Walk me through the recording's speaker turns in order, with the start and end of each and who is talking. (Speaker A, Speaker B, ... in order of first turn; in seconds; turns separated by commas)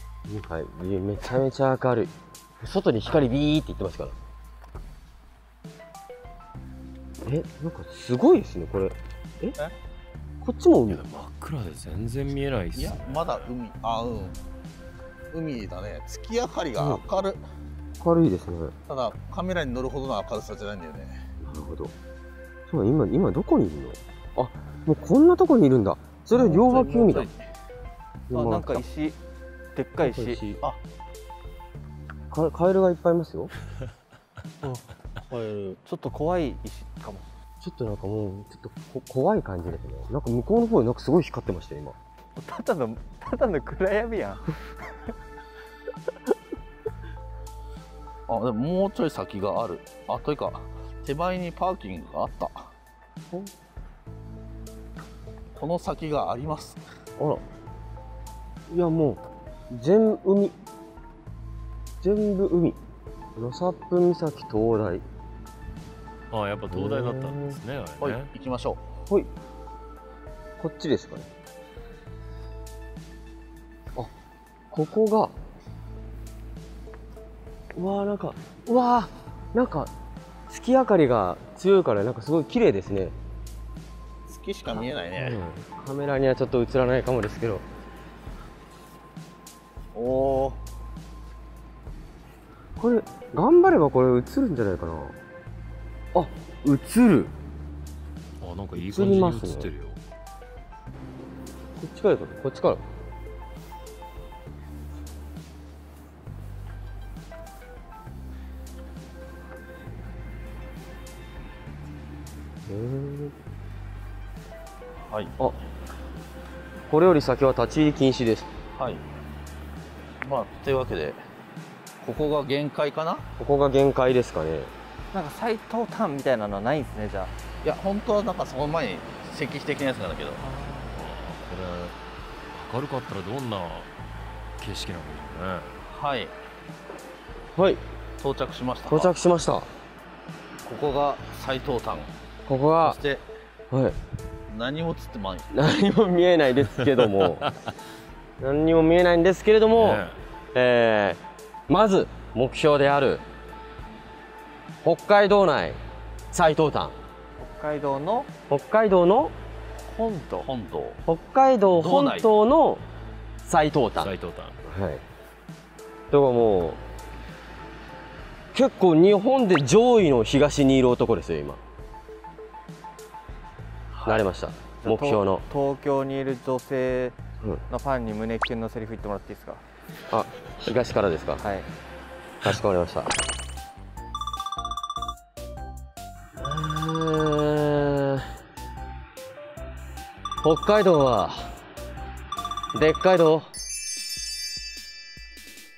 Speaker A: 0.3-4.2, Speaker A: 7.2-9.6, Speaker A: 10.4-11.0, Speaker B: 10.9-13.5, Speaker C: 12.8-14.4, Speaker C: 15.3-17.4, Speaker A: 16.8-17.0, Speaker A: 18.0-18.8, Speaker C: 18.9-21.2, Speaker A: 21.4-21.9, Speaker A: 22.7-27.3, Speaker C: 26.3-27.4, Speaker A: 28.3-28.9, Speaker D: 28.3-29.2, Speaker D: 29.7-30.4, Speaker A: 30.0-30.6, Speaker A: 32.3-33.5, Speaker C: 35.3-35.8, Speaker D: 35.9-37.3, Speaker A: 37.6-42.0, Speaker D: 42.4-45.1, Speaker C: 48.3-52.7, Speaker C: 55.5-56.8, Speaker A: 57.2-57.4, Speaker A: 58.7-60.6, Speaker A: 62.0-62.8, Speaker A: 63.4-65.0, Speaker B: 66.3-68.3, Speaker A: 66.7-67.6, Speaker C: 68.0-68.9, Speaker A: 70.6-71.3, Speaker A: 74.7-75.3, Speaker A: 77.8-79.9, Speaker A: 80.5-83.2, Speaker C: 84.3-85.4, Speaker A: 84.7-87.7, Speaker C: 89.9-90.6, Speaker A: 92.8-95.2, Speaker A: 96.1-97.3, Speaker B: 98.4-100.0, Speaker A: 98.8-99.7, Speaker A: 101.8-102.8, Speaker A: 112.7-113.3, Speaker C: 115.1-115.3, Speaker A: 116.9-118.5, Speaker C: 118.8-119.0, Speaker C: 120.2-121.2, Speaker C: 122.0-123.3, Speaker A: 123.4-124.7, Speaker D: 125.1-127.3, Speaker C: 127.6-130.4, Speaker D: 130.4-131.0, Speaker B: 130.9-132.0, Speaker B: 132.5-133.9, Speaker B: 134.6-135.7, Speaker C: 135.8-136.3, Speaker A: 137.6-137.8, Speaker C: 138.2-139.1, Speaker A: 138.9-139.7, Speaker C: 140.6-142.1, Speaker A: 142.5-143.0, Speaker C: 142.8-143.3, Speaker A: 143.7-144.0, Speaker C: 144.5-145.5, Speaker A: 145.5-147.5, Speaker B: 147.1-147.5, Speaker A: 148.4-153.2, Speaker B: 149.8-150.2, Speaker A: 154.8-155.8, Speaker A: 156.3-156.9, Speaker D: 157.4-158.3, Speaker A: 158.5-159.3, Speaker D: 159.8-160.5, Speaker C: 160.4-161.0, Speaker A: 161.1-162.8, Speaker C: 161.7-162.3, Speaker A: 163.4-164.1, Speaker B: 164.0-164.6, Speaker A: 164.7-165.0, Speaker A: 166.1-166.8, Speaker A: 168.5-171.6, Speaker A: 174.0-175.4, Speaker D: 174.8-177.2, Speaker D: 177.7-179.6, Speaker A: 180.1-181.4, Speaker D: 181.4-181.7, Speaker A: 182.4-183.2, Speaker A: 186.4-188.2, Speaker A: 190.4-191.5, Speaker A: 192.7-193.5